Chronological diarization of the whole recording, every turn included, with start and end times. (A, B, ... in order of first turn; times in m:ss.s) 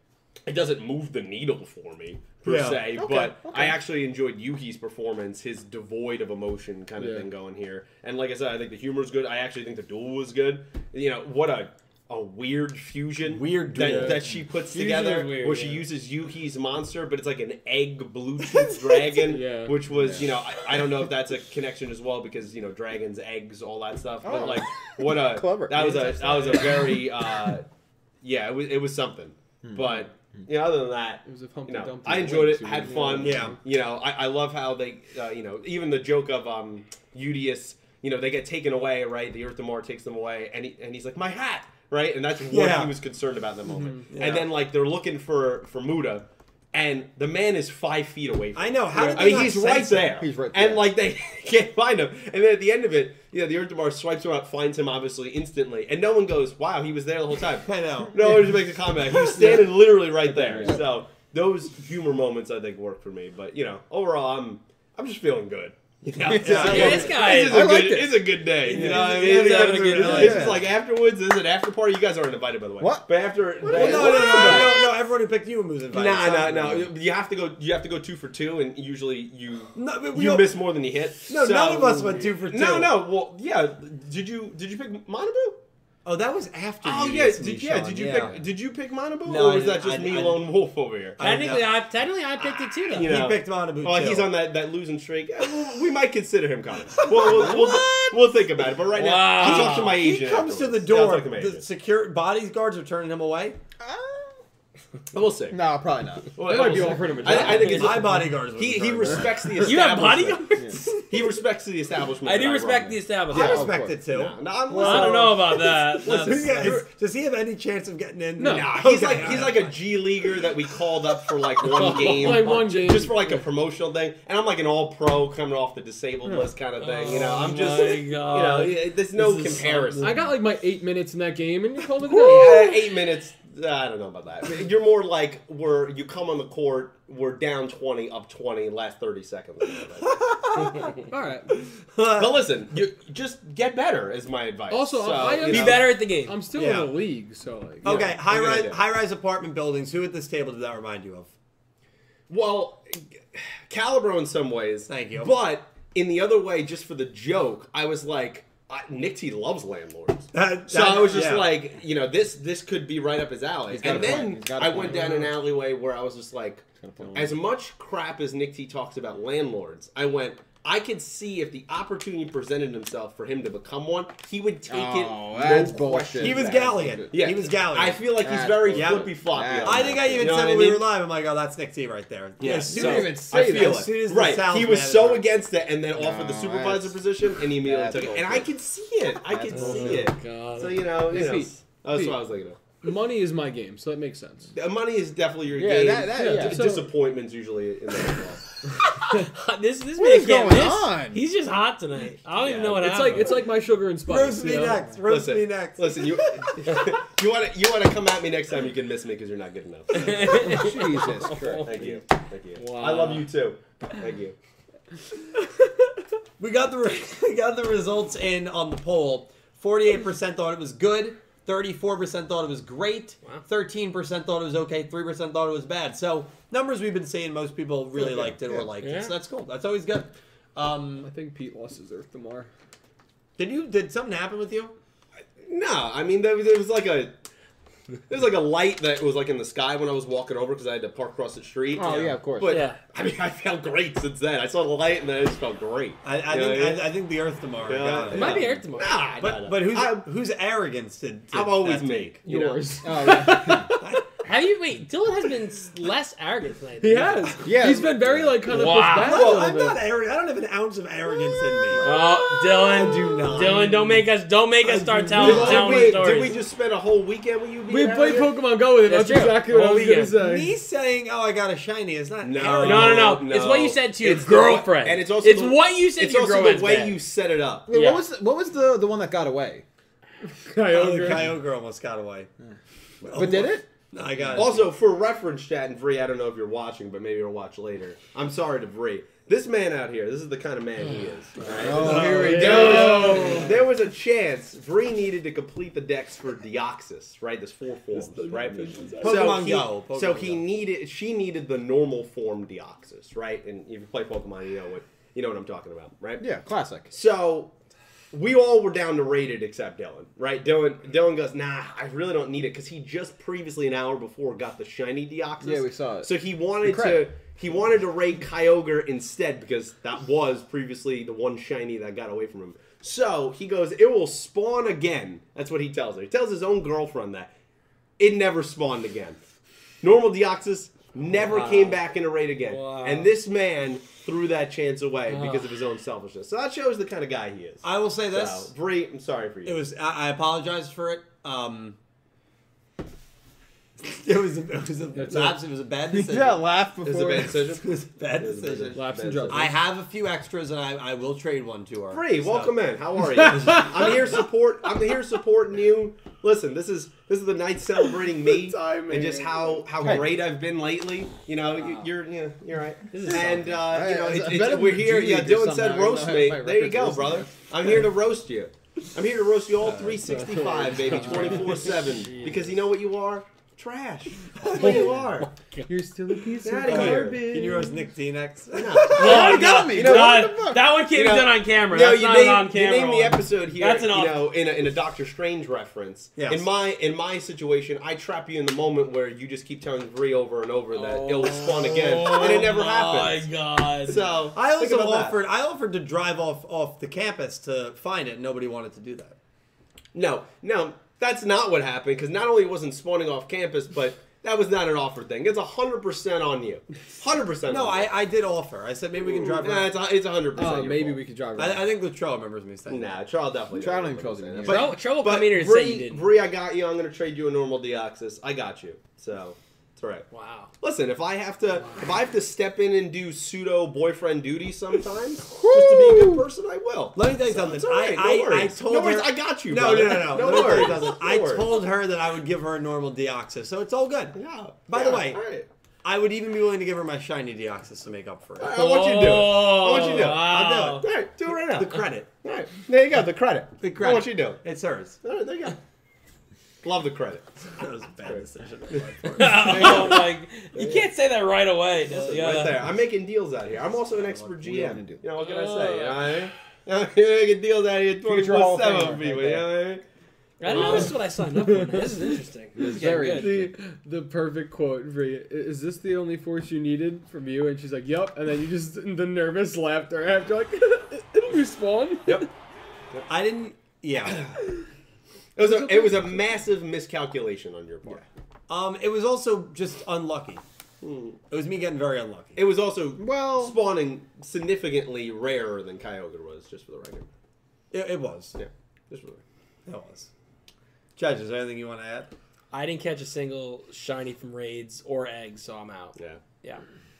0:00.5-0:27.6 A
0:02.4-0:03.0 B
0:03.0-0:03.8 C
0:07.0-0:07.3 D
0:13.2-0:14.3 B
0:13.7-0:14.3 D
0:14.7-0:15.8 E
0:19.2-0:19.9 D
0:19.9-0:20.4 C
0:24.2-0:27.0 C
0:28.2-1:14.9 A
0:29.6-0:30.0 C
0:31.2-0:33.6 D
0:33.0-0:33.6 B
0:42.5-0:43.0 B
0:44.1-0:44.5 B
0:48.6-0:50.2 B
0:49.2-0:49.5 C
0:50.1-0:50.9 C
0:57.7-0:58.4 B
1:00.3-1:00.8 C
1:06.2-1:08.8 C
1:06.3-1:07.2 B
1:06.6-1:07.7 E
1:08.6-1:10.7 B
1:08.7-1:10.4 E
1:10.0-1:10.6 C
1:12.8-1:13.1 C
1:13.6-1:14.9 C
1:13.6-1:16.9 B
1:15.9-1:25.6 A
1:19.8-1:20.6 B
1:21.3-1:23.0 B
1:26.0-1:28.4 B
1:26.8-1:31.4 A
1:29.2-1:30.5 B
1:31.2-1:31.8 B
1:31.2-1:33.2 E
1:32.9-1:41.7 A
1:33.0-1:34.3 B
1:37.0-1:38.2 B
1:38.9-1:40.0 E
1:39.4-1:43.6 B
1:43.8-1:44.4 C
1:45.1-1:45.6 A
1:45.5-1:46.9 C
1:46.3-1:56.8 A
1:46.4-1:48.2 D
1:47.3-1:49.5 B
1:49.1-1:49.4 C
1:49.6-1:51.2 E
1:52.2-1:53.7 E
1:53.3-1:54.4 B
1:53.3-1:54.0 C
1:54.7-1:56.8 E
1:54.8-1:55.1 D
1:56.0-2:00.4 B
1:58.4-1:58.8 D
1:58.4-2:10.2 A
2:01.6-2:03.5 D
2:01.7-2:02.6 E
2:06.2-2:06.5 D
2:06.8-2:10.2 E
2:10.0-2:12.8 D
2:12.1-2:20.2 A
2:20.0-2:22.5 B
2:21.1-2:21.5 D
2:22.1-2:26.0 A
2:24.7-2:28.1 D
2:25.4-2:26.4 E
2:26.5-2:27.0 B
2:27.8-2:31.3 B
2:27.9-2:28.8 A
2:32.3-3:00.9 A
2:34.9-2:35.4 B
2:40.3-2:41.6 B
2:43.7-2:45.2 C
2:46.8-2:47.4 D
2:54.7-2:57.4 C
2:56.2-3:05.2 B
2:58.2-3:00.4 C
3:02.4-3:12.6 A
3:02.7-3:03.9 C
3:06.0-3:08.5 C
3:09.3-3:10.1 C
3:09.5-3:10.9 E
3:11.1-3:12.2 D
3:12.8-3:14.5 D
3:14.5-3:18.5 A
3:15.6-3:16.8 C
3:16.1-3:16.9 D
3:18.9-3:23.4 E
3:20.0-3:21.2 C
3:22.4-3:23.2 A
3:22.8-3:24.8 D
3:24.0-3:26.6 B
3:25.0-3:30.7 A
3:29.9-3:31.8 E
3:30.4-3:31.9 C
3:31.6-3:34.4 A
3:32.5-3:33.3 E
3:36.4-3:51.1 B
3:48.8-3:49.2 E
3:51.0-3:52.5 D
3:53.4-3:54.7 B
3:55.4-3:57.2 A
3:58.1-4:06.9 A
4:01.7-4:02.6 C
4:02.4-4:02.8 E
4:06.0-4:08.6 B
4:07.6-4:10.1 A
4:08.1-4:09.0 E
4:09.2-4:12.2 B
4:11.3-4:12.9 A
4:12.2-4:14.0 D
4:12.8-4:13.7 C
4:13.8-4:14.1 B
4:14.2-4:17.3 E
4:16.8-4:19.8 D
4:17.4-4:18.4 C
4:18.5-4:19.4 E
4:19.0-4:24.1 B
4:21.7-4:22.1 A
4:21.8-4:26.4 E
4:24.7-4:26.0 D
4:25.2-4:28.4 A
4:25.2-4:25.7 B
4:27.7-4:30.5 D
4:28.8-4:30.2 E
4:30.1-4:33.2 B
4:32.2-4:37.8 A
4:32.6-4:37.0 E
4:37.7-4:39.6 C
4:37.7-4:38.0 E
4:40.2-4:41.4 D
4:40.7-4:42.3 B
4:43.0-4:44.7 B
4:43.1-4:43.4 A
4:43.1-4:43.7 C
4:44.3-5:06.3 A
4:51.4-4:53.4 C
4:51.5-4:53.6 D
4:51.7-4:53.3 B
4:52.5-4:53.5 E
4:57.9-4:59.4 D
4:59.0-5:00.4 B
5:06.2-5:06.9 C
5:06.9-5:07.5 A
5:08.1-5:27.3 A
5:15.4-5:17.1 C
5:28.0-5:29.2 A
5:29.8-5:39.6 A
5:31.3-5:31.8 E
5:32.4-5:33.1 E
5:35.1-5:35.5 E
5:37.6-5:38.5 B
5:39.4-5:41.8 B
5:43.8-5:46.5 B
5:44.9-5:45.4 D
5:45.9-5:47.5 C
5:46.8-5:49.5 A
5:47.6-5:52.5 B
5:48.7-5:49.5 D
5:51.9-6:15.3 A
5:53.3-5:53.8 B
5:58.2-5:59.7 D
5:59.8-6:00.1 C
6:02.9-6:03.5 E
6:03.2-6:07.4 C
6:09.6-6:10.1 B
6:10.1-6:11.8 D
6:11.0-6:12.5 E
6:14.4-6:15.0 B
6:14.6-6:15.7 E
6:15.7-6:17.2 D
6:16.4-6:17.8 A
6:16.6-6:19.4 B
6:18.5-6:33.3 A
6:18.9-6:24.3 E
6:19.0-6:20.8 C
6:26.2-6:26.5 B
6:30.7-6:34.0 E
6:33.8-6:35.2 A
6:34.4-6:39.2 B
6:39.9-6:47.9 A
6:47.5-6:49.8 B
6:49.0-6:51.0 A
6:50.4-6:51.7 D
6:51.4-6:53.0 B
6:52.7-7:00.1 A
6:53.5-6:54.8 C
6:54.4-6:56.1 E
7:00.1-7:00.5 E
7:00.6-7:11.5 A
7:01.6-7:01.8 E
7:05.3-7:06.2 C
7:07.0-7:14.2 B
7:14.1-7:15.5 A
7:14.7-7:15.2 B
7:15.8-7:18.6 B
7:18.4-7:24.4 A
7:18.5-7:20.9 E
7:20.0-7:20.8 B
7:21.5-7:22.1 B
7:23.6-7:25.0 B
7:25.0-7:25.6 A
7:26.6-7:27.4 A
7:27.5-7:30.0 B
7:28.0-7:30.9 A
7:29.1-7:32.7 E
7:31.9-7:39.8 A
7:34.4-7:35.0 C
7:35.2-7:36.2 E
7:38.0-7:39.5 C
7:40.4-7:43.4 E
7:40.5-7:52.3 D
7:40.5-7:41.0 A
7:42.6-7:43.5 C
7:53.1-7:54.3 B
7:54.0-7:54.5 A
7:55.4-7:58.0 A
7:55.4-7:56.3 D
7:58.5-8:00.4 B
8:00.8-8:01.2 A
8:01.3-8:02.4 B
8:02.4-8:07.1 A
8:03.0-8:03.6 C
8:07.7-8:08.4 B
8:08.4-8:09.2 A
8:09.7-8:10.1 B
8:11.0-8:12.1 B
8:12.5-8:16.6 E
8:16.0-8:16.2 A